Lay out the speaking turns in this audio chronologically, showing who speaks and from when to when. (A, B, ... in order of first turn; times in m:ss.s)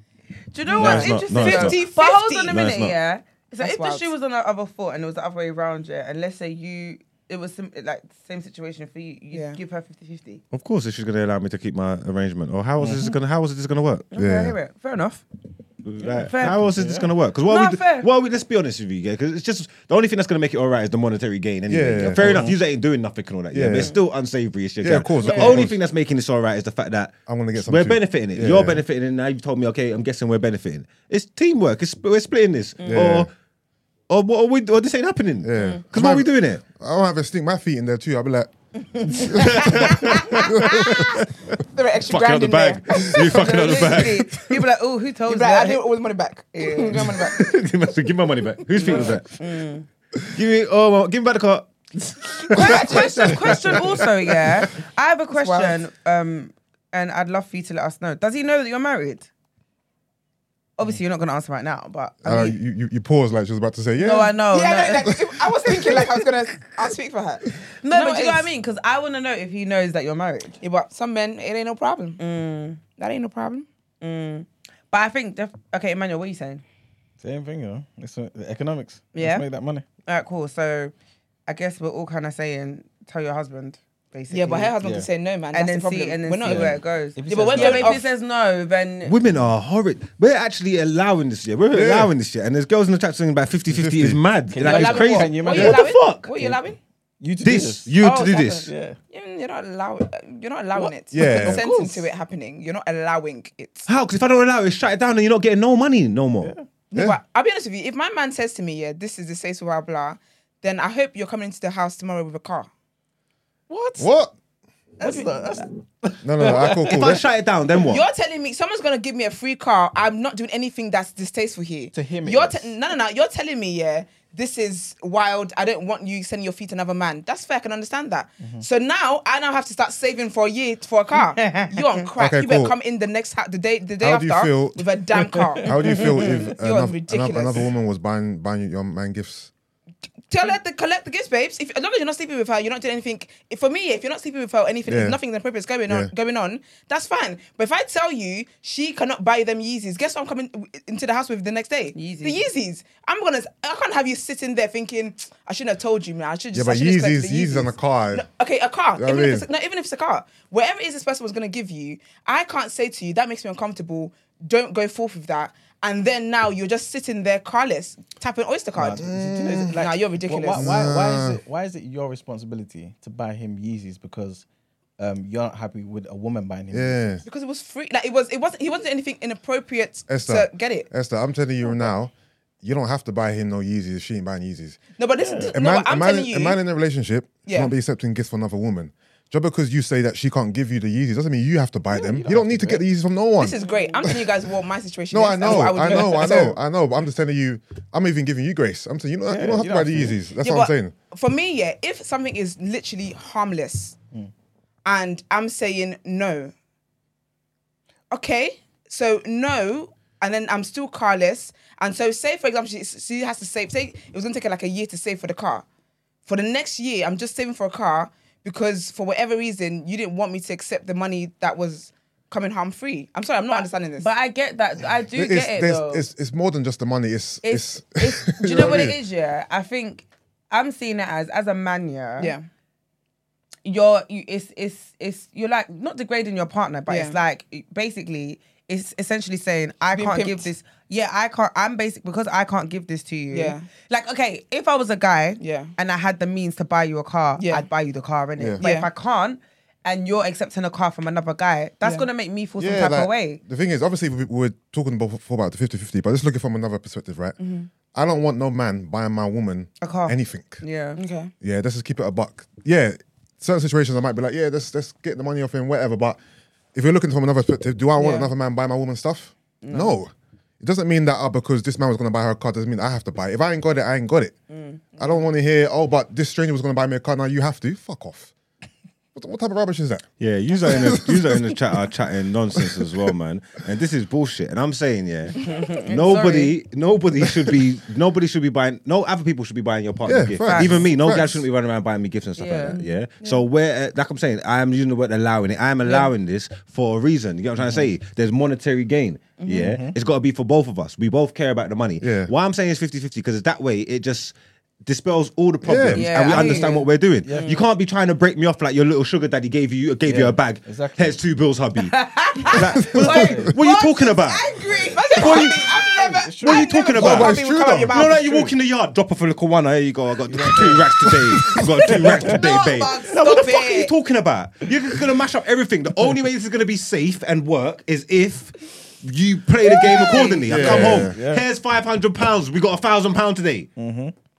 0:00.5-0:10.4 A
0:00.7-0:01.8 B
0:00.8-0:02.6 C
0:02.5-0:03.0 B
0:03.6-0:04.1 C
0:09.3-0:09.6 C
0:10.5-0:14.1 B
0:12.8-0:13.2 D
0:14.1-0:15.2 A
0:14.1-0:14.6 E
0:15.8-0:33.3 B
0:16.0-0:17.1 D
0:16.2-0:16.6 A
0:17.4-0:18.1 A
0:21.7-0:22.6 E
0:22.1-0:22.6 D
0:23.5-0:24.0 E
0:24.8-0:25.8 E
0:25.2-0:25.6 A
0:27.2-0:28.8 E
0:32.8-0:33.1 A
0:32.9-0:33.3 E
0:34.1-0:36.6 B
0:35.4-0:38.5 E
0:39.0-0:41.0 A
0:39.1-0:41.0 E
0:39.4-0:41.3 B
0:41.7-0:43.5 C
0:42.0-0:44.6 B
0:43.2-0:45.8 A
0:45.3-0:47.4 C
0:46.5-0:47.0 A
0:47.0-0:49.4 B
0:48.8-0:49.9 A
0:48.8-0:49.1 C
0:50.3-0:54.7 B
0:52.5-0:59.3 A
0:52.6-0:53.7 C
0:55.3-0:55.8 C
1:00.8-1:02.6 A
1:02.2-1:04.4 E
1:04.0-1:05.1 A
1:04.5-1:08.5 C
1:05.6-1:06.1 E
1:07.8-1:10.6 A
1:10.6-1:12.2 C
1:12.2-1:12.8 A
1:13.0-1:13.7 C
1:14.0-1:16.6 A
1:17.2-1:19.8 D
1:19.1-1:19.4 A
1:20.0-1:20.9 A
1:21.5-1:24.7 A
1:24.3-1:28.0 C
1:24.8-1:25.1 D
1:25.5-1:29.2 A
1:26.4-1:28.0 D
1:29.0-1:36.3 B
1:31.7-1:32.1 E
1:33.7-1:34.4 E
1:34.5-1:36.6 D
1:34.6-1:36.8 C
1:37.2-1:38.0 D
1:37.4-1:38.7 B
1:38.0-1:43.9 C
1:38.6-1:39.0 D
1:40.7-1:42.1 D
1:41.1-1:41.7 E
1:43.9-1:46.5 B
1:46.4-1:46.6 D
1:46.9-1:52.7 C
1:53.7-1:54.1 D
1:54.0-1:54.3 E
1:55.0-1:57.2 D
1:55.0-1:55.3 C
1:56.2-1:57.3 E
1:56.4-1:58.0 B
1:57.7-2:17.7 C
2:01.9-2:02.7 D
2:08.4-2:08.7 D
2:11.4-2:11.7 A
2:12.2-2:12.7 E
2:14.0-2:14.9 E
2:15.5-2:19.5 E
2:15.8-2:16.0 D
2:20.3-2:49.0 C
2:24.8-2:25.2 E
2:31.9-2:32.4 A
2:36.5-2:38.3 E
2:39.0-2:39.5 E
2:48.7-2:54.4 D
2:49.0-2:49.8 E
2:49.7-2:50.8 C
2:50.6-2:51.4 E
2:55.0-2:57.2 D
2:56.7-2:57.2 E
2:57.2-3:00.9 C
3:00.1-3:04.9 E
3:05.0-3:06.6 C
3:05.2-3:05.5 D
3:05.5-3:14.3 E
3:07.4-3:07.7 C
3:11.9-3:12.8 D
3:13.4-3:16.6 C
3:13.6-3:14.0 A
3:15.1-3:21.0 E
3:19.3-3:20.2 D
3:20.4-3:24.0 C
3:24.8-3:26.5 C
3:28.1-3:35.6 C
3:36.2-3:44.1 C
3:43.5-3:46.0 A
3:45.1-3:49.0 E
3:47.4-3:52.3 A
3:48.5-3:48.8 C
3:52.2-3:52.5 C
3:53.6-4:13.4 A
3:56.9-3:57.2 C
3:59.9-4:00.5 C
4:03.3-4:03.7 C
4:05.4-4:05.7 C
4:07.4-4:07.6 C
4:08.6-4:08.9 C
4:12.6-4:17.4 E
4:17.4-4:17.7 C
4:17.9-4:20.6 E
4:19.8-4:21.0 A
4:21.0-4:21.3 C
4:21.4-4:26.2 E
4:26.7-4:34.4 E
4:28.0-4:28.3 C
4:29.6-4:30.0 A
4:34.5-4:35.2 A
4:35.0-4:38.3 E
4:39.1-4:41.8 E
4:40.2-5:14.6 B
4:42.5-4:43.1 E
4:45.4-4:46.5 A
4:47.2-4:47.6 E
4:50.0-4:51.4 E
4:50.4-4:50.9 A
4:52.4-4:52.8 A
4:52.8-4:53.4 C
4:55.8-4:56.1 A
4:57.6-4:57.9 D
4:59.5-5:00.0 D
5:02.0-5:02.3 E
5:05.6-5:06.2 E
5:05.9-5:07.6 A
5:07.2-5:07.5 D
5:10.0-5:11.2 D
5:11.8-5:15.4 A
5:12.7-5:13.5 E
5:13.1-5:13.5 D
5:14.7-5:18.5 C
5:15.2-5:15.6 B
5:15.8-5:16.7 D
5:16.4-5:17.4 B
5:16.9-5:18.2 E
5:17.9-5:33.7 B
5:20.2-5:22.4 D
5:21.1-5:21.6 E
5:22.2-5:23.2 A
5:23.1-5:23.9 C
5:29.8-5:30.6 C
5:30.4-5:31.2 E
5:30.5-5:31.5 D
5:33.8-5:34.1 D